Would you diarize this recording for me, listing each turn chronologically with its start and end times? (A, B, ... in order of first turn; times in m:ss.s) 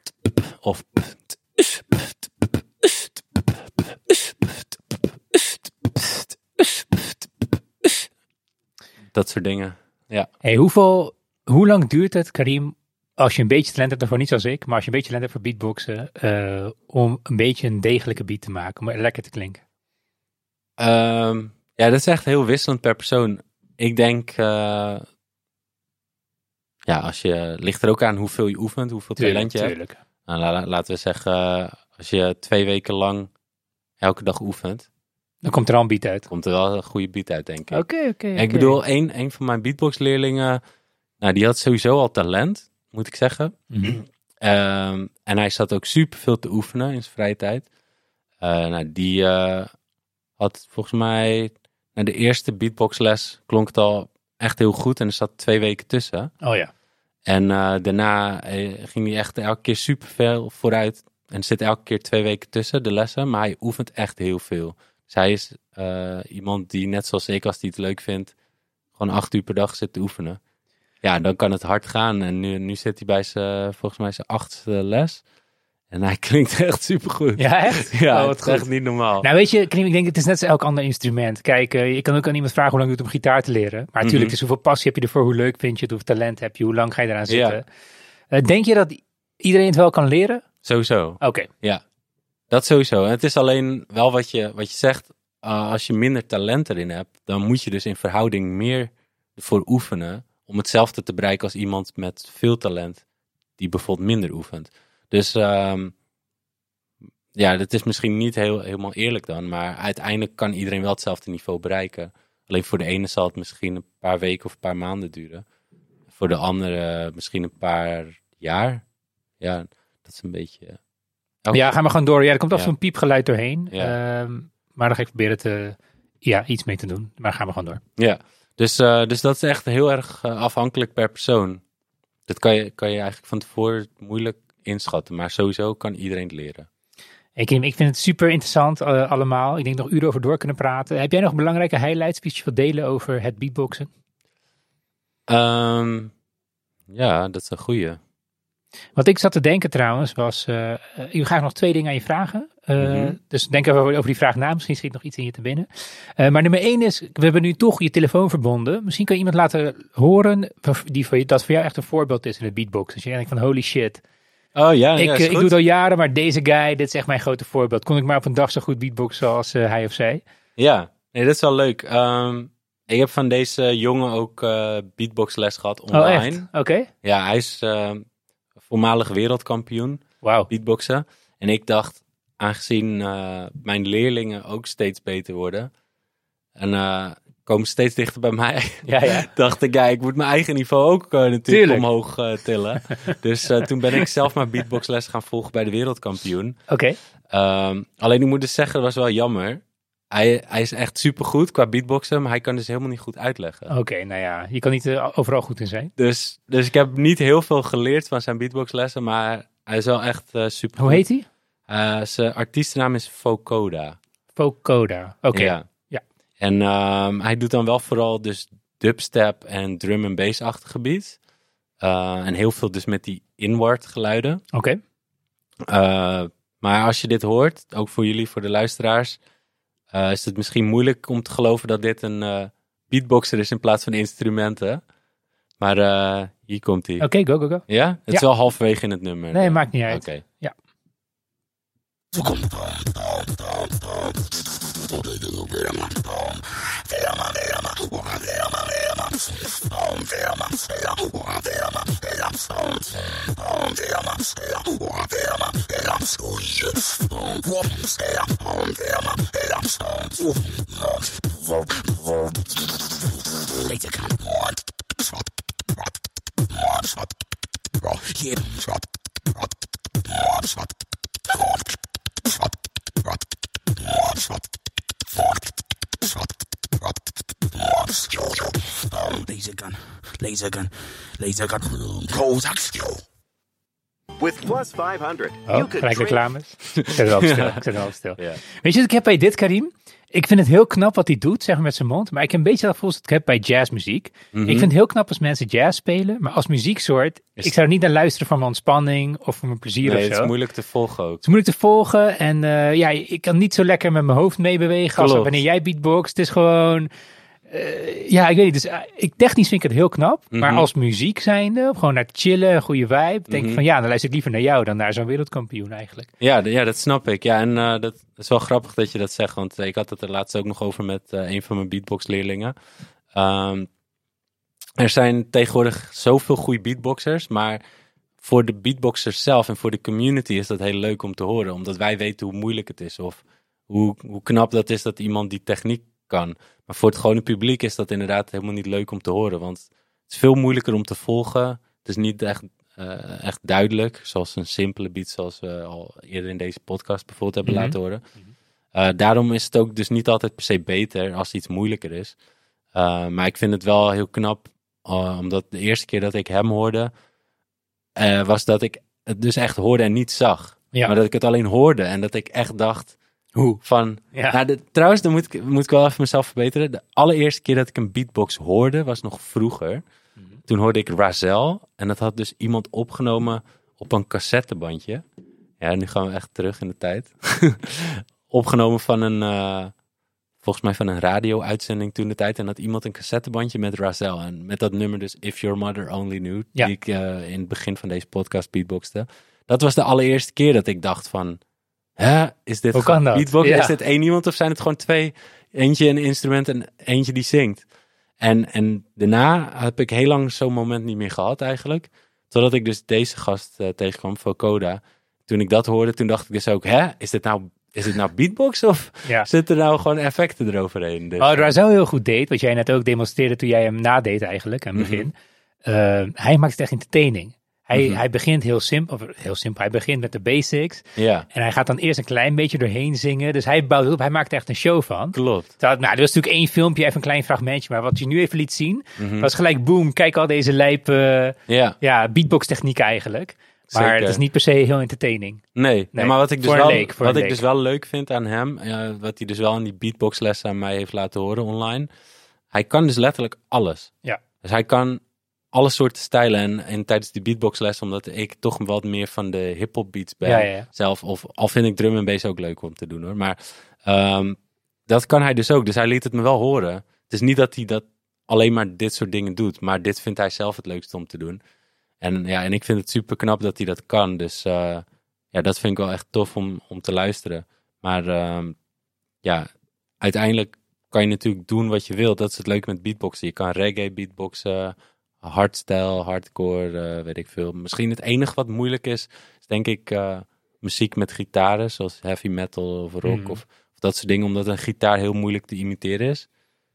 0:00.4-0:01.8 A
0:09.1-0:10.3 A
0:10.4-0:19.6 B
0:20.8-0:25.1 A
0:26.9-0:29.8 A
0:29.2-0:30.0 B
0:30.3-0:33.3 A
0:34.0-0:34.9 A
0:35.4-0:36.3 B
0:36.3-0:40.6 A
0:37.7-0:38.8 B
0:41.2-0:47.7 A
0:43.7-0:44.0 B
0:48.4-0:49.7 A
0:50.4-0:56.3 A
0:56.4-0:56.7 B
0:57.3-1:08.3 A
1:09.0-1:10.4 A
1:11.0-1:15.2 A
1:15.9-1:19.3 A
1:17.4-1:18.7 B
1:19.2-1:27.6 B
1:24.0-1:24.4 A
1:27.3-1:27.6 A
1:28.3-1:30.4 B
1:30.6-1:31.8 A
1:31.2-1:31.5 B
1:32.5-1:43.0 A
1:43.6-1:45.9 A
1:47.3-1:55.4 A
1:56.1-1:58.8 A
1:59.4-2:00.8 A
2:01.4-2:01.7 A
2:01.5-2:07.8 B
2:08.0-2:11.6 A
2:12.3-2:16.7 A
2:17.4-2:23.9 B
2:25.3-2:26.1 A
2:26.9-2:28.0 A
2:29.0-2:44.0 B
2:32.8-2:33.2 A
2:44.6-2:45.5 A
2:45.0-2:50.2 B
2:50.6-2:56.5 A
2:55.9-2:56.9 B
2:57.0-2:58.0 A
2:58.6-3:05.7 A
3:00.2-3:00.5 B
3:06.6-3:16.6 A
3:08.8-3:09.3 B
3:11.5-3:11.9 B
3:16.7-3:17.0 B
3:17.3-3:23.7 A
3:23.7-3:25.9 B
3:26.0-3:31.0 A
3:30.8-3:31.3 B
3:31.7-3:34.0 A
3:34.4-3:36.0 B
3:35.3-3:35.7 A
3:36.4-3:41.2 A
3:41.8-3:44.4 A
3:44.5-3:44.8 B
3:45.6-3:49.2 A
3:49.9-3:54.8 A
3:55.6-3:57.1 A
3:57.0-3:58.3 B
3:57.7-4:00.2 A
3:59.3-4:00.5 B
4:02.1-4:24.7 C
4:26.5-4:27.1 C
4:27.8-4:28.8 C
4:29.4-4:30.7 C
4:31.3-4:32.5 C
4:33.7-4:34.5 C
4:35.1-4:36.3 C
4:36.8-4:43.0 C
4:44.2-4:46.2 D
4:44.4-4:45.9 C
4:45.5-5:00.3 B
4:46.8-4:47.6 A
4:54.3-4:54.7 A
4:59.8-5:01.2 A
5:01.2-5:06.9 B
5:05.0-5:05.4 A
5:07.5-5:16.1 B
5:10.3-5:10.7 A
5:13.3-5:13.6 A
5:16.2-5:22.6 A
5:23.1-5:23.7 A
5:24.8-5:27.6 A
5:28.2-5:48.0 A
5:47.4-5:48.3 B
5:48.7-5:52.2 A
5:52.7-5:56.9 A
5:58.0-6:03.0 A
6:03.6-6:09.8 A
6:10.5-6:15.0 A
6:15.6-6:19.7 A
6:20.4-6:31.4 A
6:32.0-6:37.6 A
6:32.7-6:33.7 B
6:38.2-6:51.5 A
6:51.2-6:55.1 B
6:54.8-6:55.1 A
6:55.6-7:17.4 B
6:57.7-6:58.0 A
7:01.0-7:01.3 A
7:05.1-7:05.5 A
7:09.0-7:09.3 A
7:11.5-7:11.8 A
7:13.7-7:14.2 A
7:15.6-7:21.9 A
7:22.5-7:25.0 A
7:25.5-7:41.4 A
7:30.3-7:30.7 B
7:42.0-7:48.6 A
7:49.2-7:49.5 A
7:50.0-8:06.3 A
8:03.0-8:03.4 B